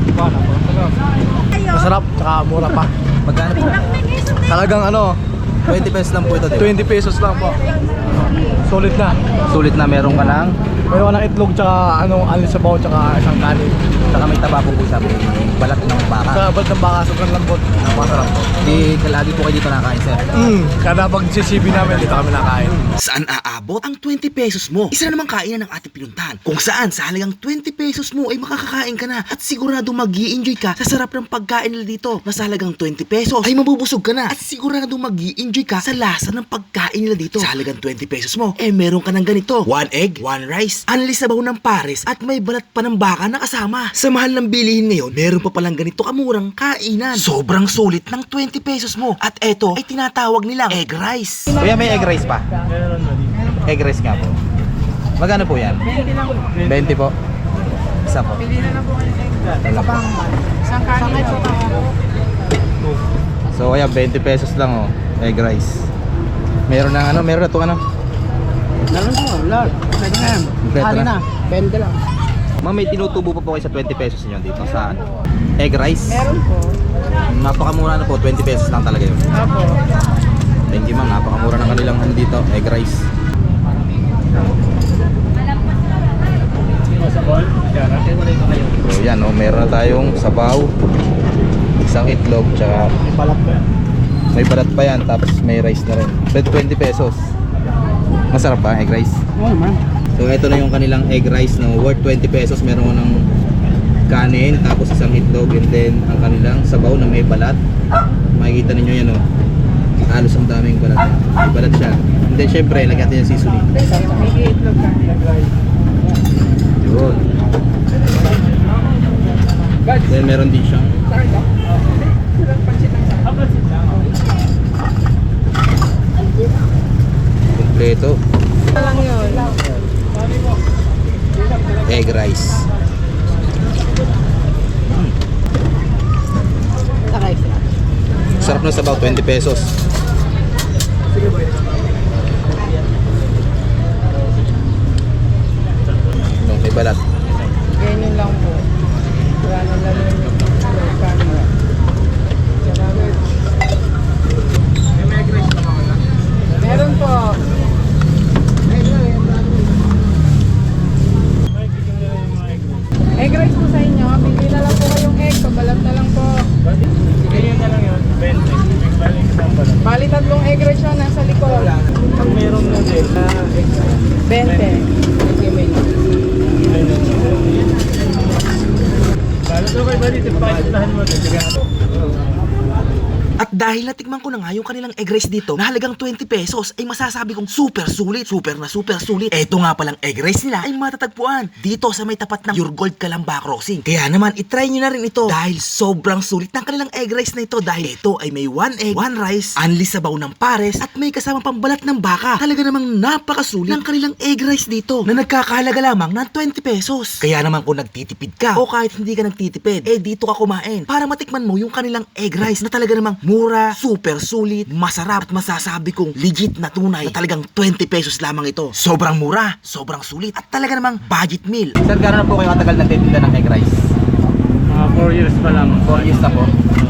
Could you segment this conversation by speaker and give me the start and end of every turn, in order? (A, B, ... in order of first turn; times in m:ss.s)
0:00.2-0:00.9 A
0:01.6-0:02.9 A
0:03.2-0:03.8 B
0:04.4-0:05.2 A
0:05.7-0:06.7 B
0:06.6-0:07.6 A
0:08.6-0:09.2 A
0:09.5-0:10.6 B
0:10.9-0:13.8 A
0:14.1-0:16.5 B
0:16.3-0:18.5 A
0:17.9-0:20.3 B
0:20.4-0:22.9 A
0:23.0-0:51.6 C
0:51.5-0:52.5 B
0:53.6-0:54.4 B
0:55.2-0:55.9 B
0:56.6-0:57.1 B
0:58.0-0:58.8 B
0:59.6-1:00.2 B
1:00.7-1:01.7 D
1:03.5-1:05.9 B
1:06.7-1:07.8 B
1:08.9-1:10.5 A
1:10.6-1:11.2 B
1:11.5-1:11.9 A
1:12.6-1:15.0 B
1:15.6-1:16.4 B
1:17.3-1:19.4 B
1:20.7-1:23.1 B
1:28.8-1:30.7 B
1:31.8-1:32.9 B
1:34.3-1:37.3 B
1:38.3-1:39.2 B
1:39.4-1:39.8 A
1:40.2-1:43.3 B
1:44.1-1:47.6 B
1:48.3-1:49.2 B
1:50.1-1:54.2 B
1:54.2-1:55.1 D
1:56.8-1:57.3 B
2:00.0-2:01.0 B
2:07.5-2:08.2 B
2:08.8-2:09.5 D
2:11.8-2:12.6 B
2:17.1-2:17.6 A
2:18.4-2:19.8 B
2:26.4-2:27.0 B
2:27.8-2:28.6 D
2:29.4-2:30.3 D
2:30.8-2:31.4 D
2:36.6-2:37.4 D
2:43.2-2:46.5 D
2:49.8-2:51.8 D
2:54.3-2:54.9 D
3:03.4-3:41.8 C
3:41.8-3:43.8 B
3:45.1-3:46.5 B